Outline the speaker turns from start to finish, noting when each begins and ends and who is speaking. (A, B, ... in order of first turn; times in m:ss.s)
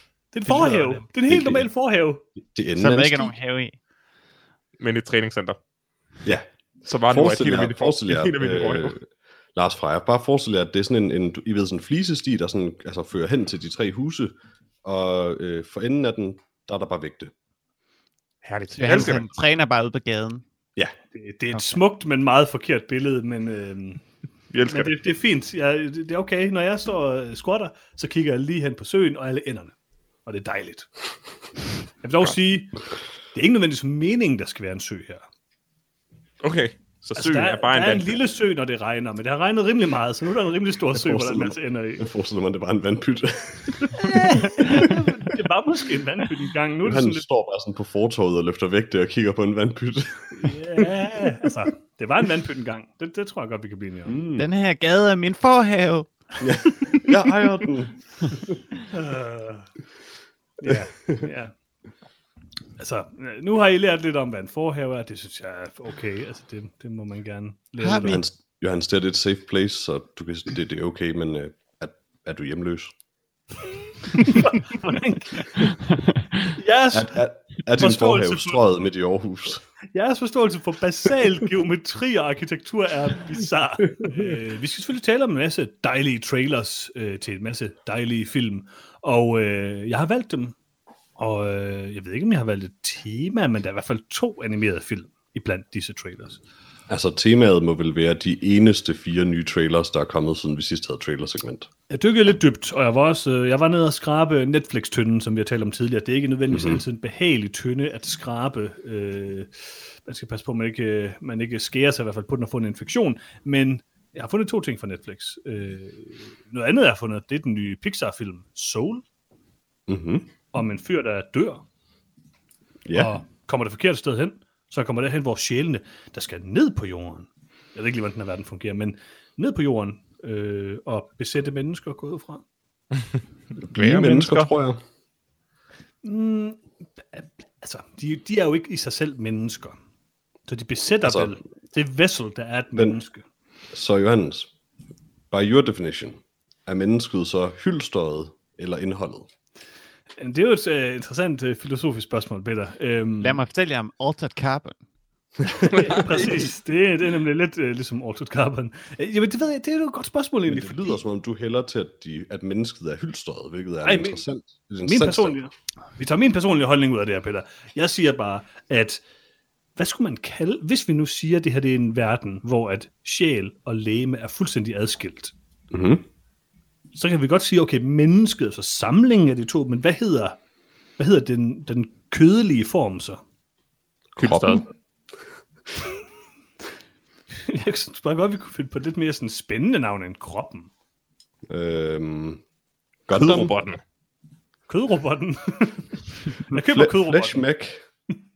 0:00.3-0:02.2 A
0:00.5-0:00.8 B
0:01.3-0:01.7 B
0:02.4-0:03.3 B
0:02.8-0:03.8 C
0:04.8-0:05.6 D
0:06.8-0:09.0 D
0:07.1-0:17.3 B
0:18.4-0:19.3 D
0:18.8-0:20.4 C
0:21.1-0:24.0 A
0:21.5-0:21.8 C
0:24.5-0:24.9 D
0:24.7-0:29.8 A
0:30.3-0:30.9 A
0:32.0-0:32.8 A
0:33.3-0:35.2 A
0:36.4-0:38.2 D
0:37.2-0:42.1 A
0:40.9-0:45.1 B
0:43.9-0:47.2 A
0:46.8-0:51.5 B
0:50.3-0:54.2 A
0:54.1-0:54.5 B
0:54.4-0:56.1 C
0:56.4-0:58.6 B
0:58.9-0:59.7 A
1:00.6-1:01.5 A
1:00.6-1:01.2 B
1:02.8-1:08.2 A
1:07.8-1:08.2 C
1:08.0-1:13.0 B
1:14.1-1:15.7 A
1:16.5-1:17.2 A
1:16.9-1:19.6 B
1:17.7-1:18.6 A
1:19.9-1:30.6 A
1:24.0-1:24.3 B
1:31.2-1:36.4 A
1:36.9-1:41.7 B
1:41.9-1:49.5 A
1:46.5-1:46.8 B
1:50.0-1:59.0 A
1:59.9-2:00.3 B
2:00.5-2:01.6 A
2:02.8-2:03.2 B
2:02.9-2:12.4 A
2:13.6-2:14.8 B
2:13.7-2:14.5 D
2:16.0-2:19.8 A
2:20.5-2:23.2 A
2:21.0-2:21.4 B
2:23.7-2:24.5 B
2:25.3-2:29.3 B
2:30.2-2:33.4 A
2:33.2-2:34.8 C
2:35.6-2:41.0 A
2:40.5-2:45.4 B
2:43.8-2:44.2 A
2:44.8-2:49.0 A
2:49.8-2:55.3 A
2:55.7-2:56.0 B
2:57.0-3:00.4 A
3:01.0-3:03.2 A
3:04.2-3:04.6 B
3:04.2-3:04.7 D
3:07.3-3:10.7 A
3:11.5-3:12.4 B
3:13.1-3:13.5 B
3:13.1-3:13.8 D
3:14.7-3:17.4 A
3:16.5-3:17.8 B